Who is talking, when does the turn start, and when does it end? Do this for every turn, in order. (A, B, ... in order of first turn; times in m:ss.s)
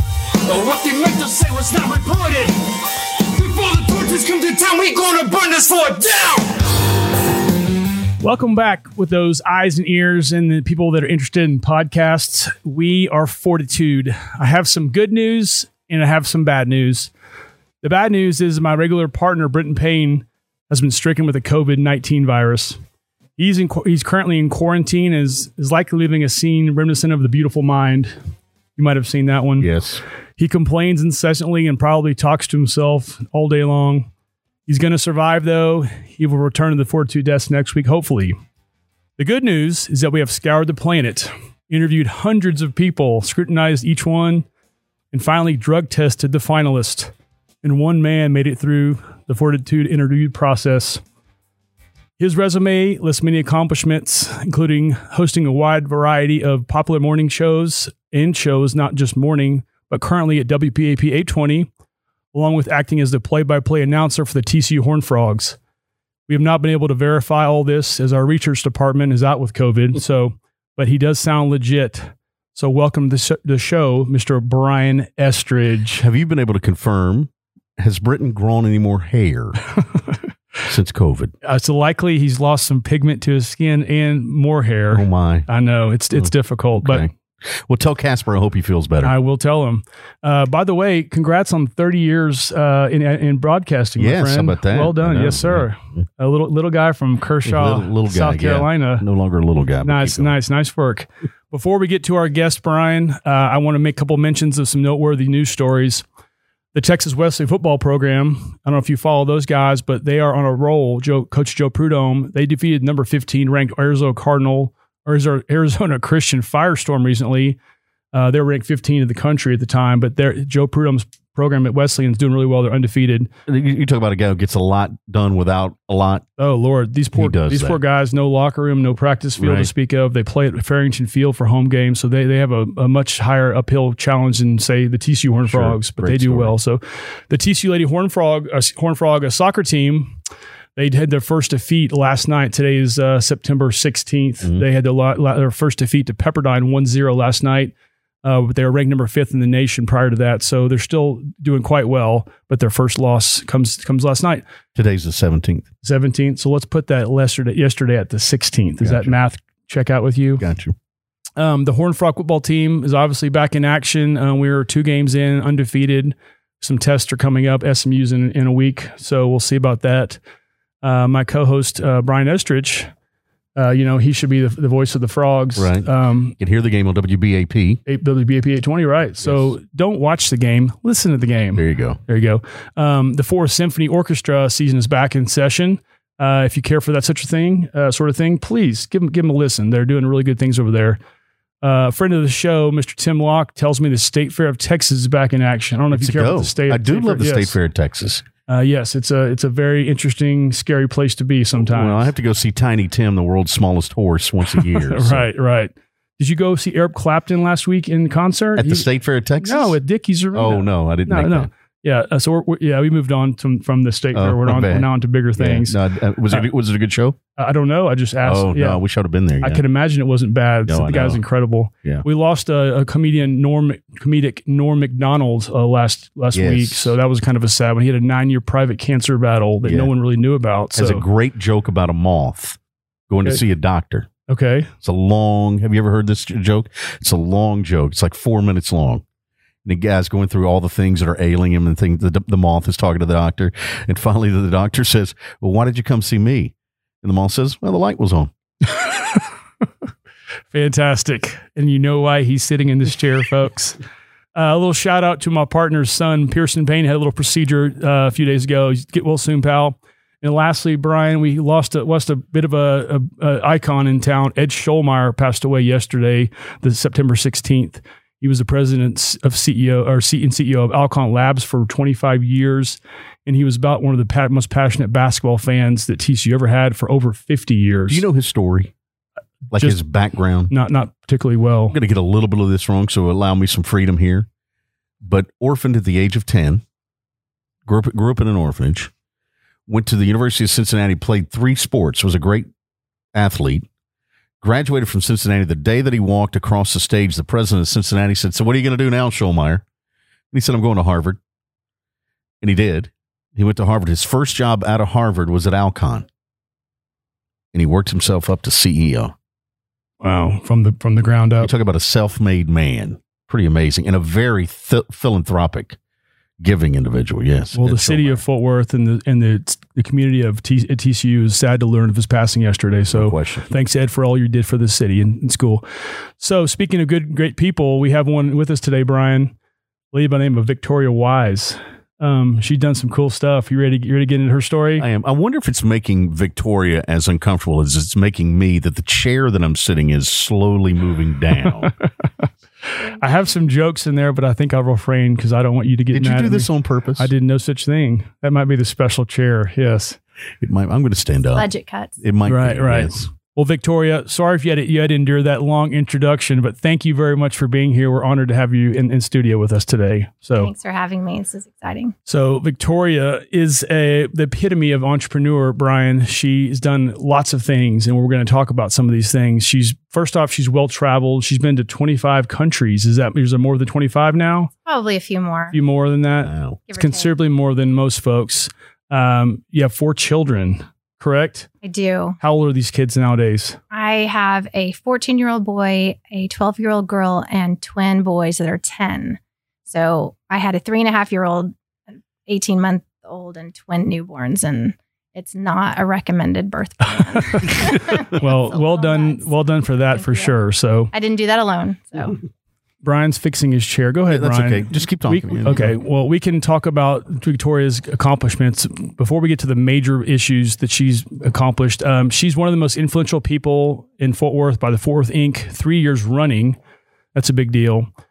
0:00.4-0:06.8 A
0:08.2-0:17.1 B
0:17.8-0:22.8 B
0:23.4-0:28.2 B
0:28.8-0:29.7 B
0:29.6-0:30.0 C
0:30.4-0:34.1 B
0:34.7-0:38.4 B
0:39.2-0:44.5 B
0:45.1-0:47.1 B
0:47.6-0:51.0 B
0:52.2-1:01.7 B
1:02.3-1:05.6 B
1:06.3-1:16.0 B
1:16.0-1:19.6 C
1:20.7-1:21.3 C
1:21.4-1:27.1 B
1:24.9-1:25.5 C
1:26.1-1:29.1 C
1:29.0-1:39.1 B
1:34.0-1:36.0 C
1:37.4-1:40.3 C
1:39.8-1:46.0 B
1:46.7-1:57.6 B
1:58.1-2:03.3 B
2:03.5-2:06.2 C
2:06.4-2:20.2 B
2:07.2-2:07.8 C
2:09.4-2:09.7 C
2:15.4-2:16.6 C
2:20.8-2:34.4 B
2:34.8-2:35.7 C
2:35.8-2:40.4 B
2:38.8-2:39.2 C
2:40.4-2:40.8 C
2:41.4-2:50.2 B
2:50.8-2:52.9 B
2:53.6-2:56.4 B
2:55.6-2:55.9 C
2:56.4-2:57.8 C
2:57.9-3:11.0 B
2:59.2-2:59.5 C
3:01.6-3:02.0 C
3:11.6-3:17.6 B
3:15.9-3:18.2 C
3:18.5-3:22.1 B
3:21.6-3:25.2 C
3:24.5-3:28.9 B
3:28.6-3:29.8 C
3:29.4-3:35.8 B
3:30.3-3:31.5 C
3:34.2-3:37.2 C
3:37.4-3:38.8 B
3:38.2-3:39.6 C
3:39.4-3:51.0 B
3:40.7-3:41.2 C
3:46.3-3:47.0 C
3:49.6-3:49.9 C
3:50.8-3:54.1 C
3:54.3-3:54.7 B
3:54.8-3:59.0 C
3:59.6-4:08.3 C
4:08.7-4:09.2 B
4:10.5-4:13.8 B
4:14.4-4:38.0 B
4:37.9-4:38.7 C
4:39.5-4:40.5 C
4:39.5-4:39.8 B
4:40.5-4:41.8 B
4:41.7-4:44.3 C
4:45.0-4:46.6 C
4:47.6-4:48.9 C
4:49.7-4:52.5 C
4:53.1-4:53.7 C
4:54.4-4:59.6 C
5:00.3-5:01.2 C
5:02.4-5:06.1 C
5:07.5-5:09.1 C
5:10.0-5:11.5 B
5:11.4-5:15.8 C
5:16.4-5:18.2 C
5:17.6-5:29.3 B
5:22.9-5:23.5 C
5:29.9-5:34.8 B
5:34.8-5:41.7 C
5:41.4-5:41.8 B
5:42.8-5:43.4 D
5:43.0-5:50.0 B
5:45.9-5:47.1 C
5:50.4-5:51.5 C
5:51.4-5:52.0 D
5:52.0-5:53.1 C
5:52.3-6:00.5 B
6:00.4-6:01.9 D
6:02.1-6:14.5 B
6:14.6-6:15.6 D
6:15.5-6:21.5 B
6:16.2-6:16.6 C
6:16.7-6:17.1 D
6:21.6-6:22.2 D
6:22.2-6:23.6 B
6:23.7-6:31.5 D
6:32.2-6:40.4 D
6:37.0-6:40.9 B
6:40.9-6:42.2 D
6:42.8-6:56.6 B
6:44.1-6:45.7 C
6:57.2-6:57.9 B